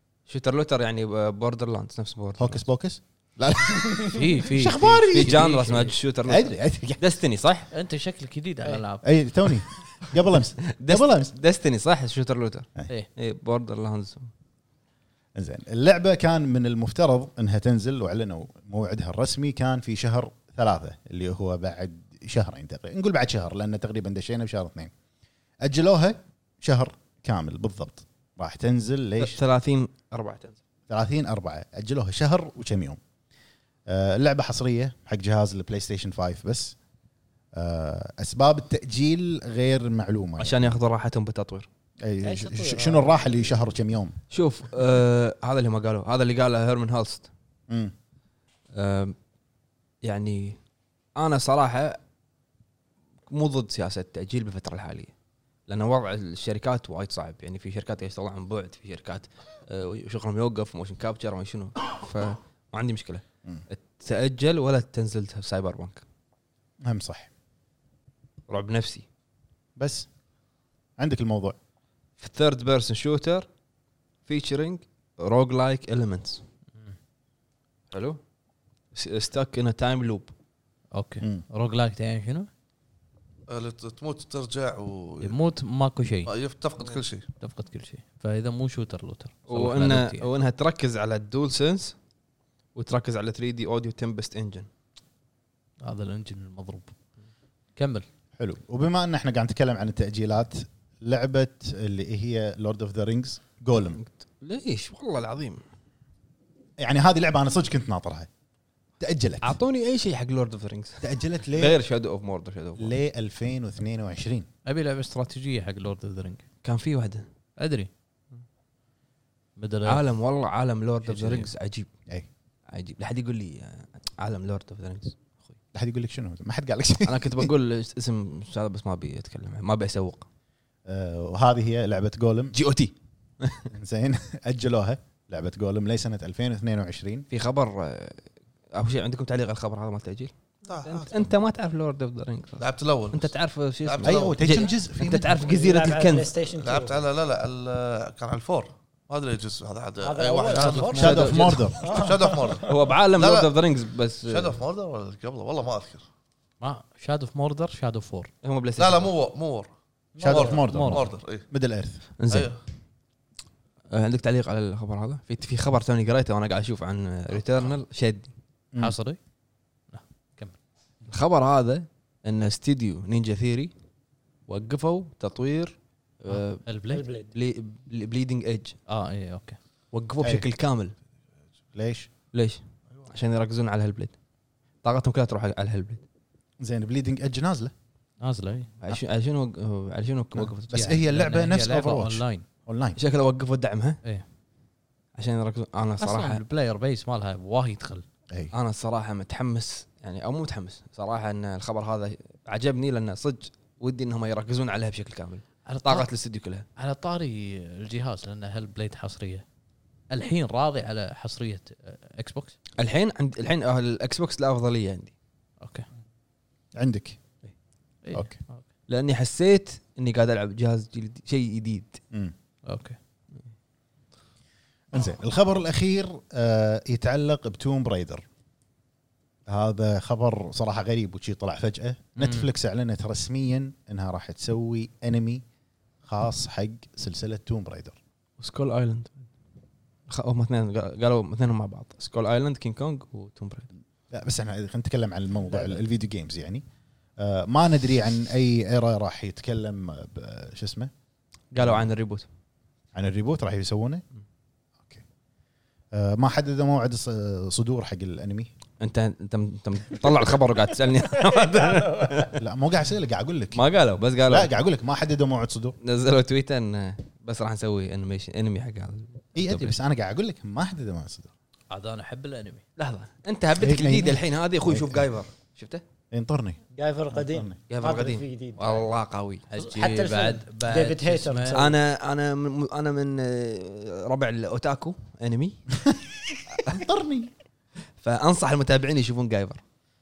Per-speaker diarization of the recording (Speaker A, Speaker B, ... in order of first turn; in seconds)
Speaker A: 0.3-2.6, 5.1-7.7, 10.7-14.3, 29.2-30.6, 40.4-41.7, 44.3-47.3, 48.8-49.1, 50.0-50.6, 51.2-52.0, 53.3-55.1, 55.7-66.0, 68.5-69.0, 72.2-73.5, 74.3-76.4, 77.9-78.2, 78.9-80.3, 89.5-92.0, 92.8-94.7, 104.0-105.6, 109.4-113.0, 116.6-117.3, 119.9-121.9, 122.7-125.2, 127.0-130.3, 132.5-133.7, 137.3-140.3, 140.8-146.3, 150.6-151.7, 152.6-154.6, 158.4-159.1, 162.2-162.5, 163.9-168.3, 171.1-173.7, 174.5-176.6, 177.2-178.8, 179.9-180.9, 182.3-184.2, 184.8-186.0, 188.8-191.0, 193.0-194.0, 195.2-196.4, 198.5-206.7, 212.8-215.1, 218.9-222.0, 238.4-239.3, 240.1-243.7, 251.5-252.3, 258.8-262.4, 263.5-264.5, 265.8-269.8, 272.8-275.8, 277.7-279.4, 281.5-285.6, 288.0-289.6
Speaker B: 2.4-5.6, 6.3-7.0, 9.0-11.3, 15.4-24.9, 25.6-29.4, 30.9-33.0, 33.9-36.8, 37.5-40.8, 42.0-44.2, 66.8-67.3, 69.8-70.1, 71.0-71.6, 98.4-104.0, 106.8-108.3, 109.0-109.6, 111.0-111.8, 112.8-114.5, 125.7-127.5, 130.9-132.6, 133.7-137.3, 144.0-145.3, 151.0-151.9, 160.2-162.0, 181.8-182.1, 186.6-187.7, 190.3-193.0, 216.8-217.2, 224.9-228.2, 229.5-235.4, 236.0-238.0, 244.1-246.6, 247.2-250.9, 251.6-251.9, 252.9-254.0, 255.9-258.5, 262.4-263.6, 264.3-265.8, 269.4-271.3, 273.6-275.1, 276.1-276.6, 277.1-277.6, 286.6-287.3
Speaker C: 4.1-5.9, 7.7-9.1, 80.9-82.5, 85.2-86.3, 87.4-90.3, 95.8-96.9, 97.8-98.0, 114.7-116.5, 117.6-117.9, 119.6-120.0, 121.1-121.4, 150.5-151.4, 156.6-158.3, 160.7-161.1, 168.8-169.2, 169.9-170.6, 176.3-177.0, 178.9-179.6, 188.2-188.7, 190.7-192.5, 196.0-198.1, 205.7-206.1, 206.8-209.4, 210.1-212.5, 218.0-218.6, 222.7-223.0, 232.2-232.5, 271.7-272.6, 279.5-281.6
Speaker D: 42.2-43.2, 145.3-147.0, 150.0-151.2, 151.8-152.7, 160.2-160.6, 176.9-177.3, 261.6-262.2, 276.8-278.9, 279.6-281.8
Speaker E: 83.5-85.4, 86.3-87.3, 140.7-141.2, 142.6-143.3, 143.8-144.7, 146.6-151.2, 151.8-153.5, 154.3-156.0, 158.8-159.7, 160.2-161.5, 162.3-162.6, 167.3-167.7